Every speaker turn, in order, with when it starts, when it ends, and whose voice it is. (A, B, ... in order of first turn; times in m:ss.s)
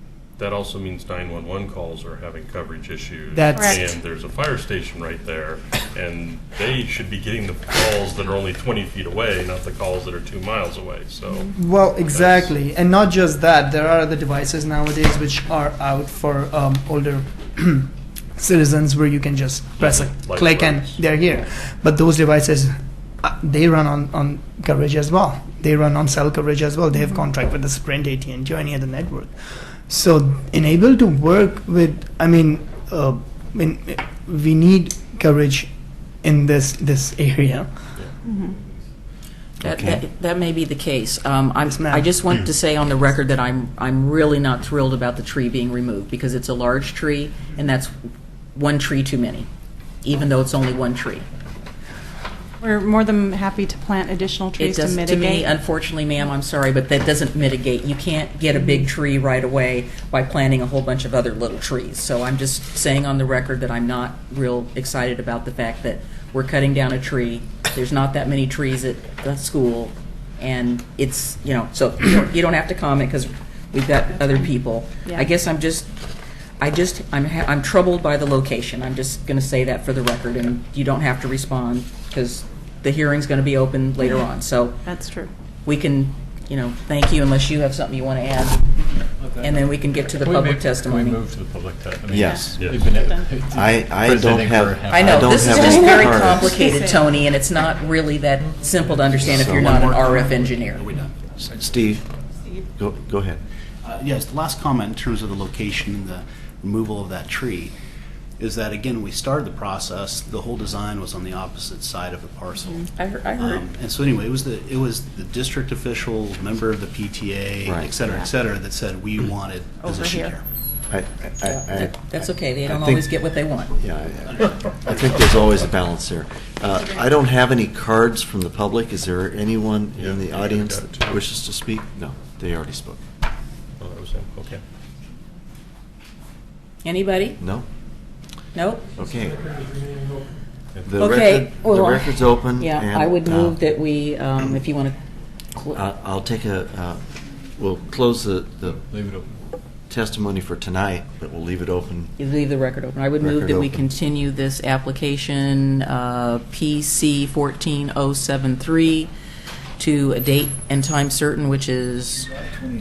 0:00.4-0:12.5 A
0:03.3-0:03.9 B
0:03.6-0:03.8 C
0:11.5-0:38.0 B
0:19.8-0:21.0 A
0:38.2-0:38.6 C
0:39.6-0:40.0 D
0:39.6-0:47.9 E
0:41.6-0:42.1 B
0:48.6-0:49.5 E
0:50.0-0:51.3 E
0:52.6-0:55.5 C
0:54.6-1:15.9 E
1:15.0-1:15.3 C
1:16.6-1:24.8 E
1:24.8-1:25.3 C
1:25.6-1:28.7 E
1:29.4-1:31.2 E
1:30.2-1:36.5 F
1:31.5-1:32.9 A
1:32.1-1:32.5 D
1:32.2-1:33.3 C
1:33.5-1:36.6 D
1:34.9-1:40.9 E
1:35.6-1:36.0 C
1:36.5-1:37.0 C
1:39.2-1:41.6 G
1:39.2-1:39.8 D
1:41.6-1:42.0 D
1:42.8-1:43.4 D
1:43.8-1:47.7 G
1:48.4-2:00.4 G
1:52.8-1:53.6 E
1:57.6-1:58.0 D
1:59.8-2:00.4 C
2:00.9-2:03.2 D
2:01.4-2:03.8 E
2:03.8-2:13.0 D
2:10.0-2:11.2 A
2:13.8-2:14.6 A
2:16.8-2:17.4 E
2:17.4-2:17.7 D
2:18.5-2:18.9 E
2:19.0-2:19.4 D
2:20.9-2:23.6 D
2:21.0-2:25.0 E
2:25.7-2:27.0 D
2:27.6-2:28.8 D
2:28.7-2:29.3 F
2:29.9-2:32.1 D
2:32.2-2:39.1 E
2:33.2-2:33.8 D
2:39.8-2:42.3 E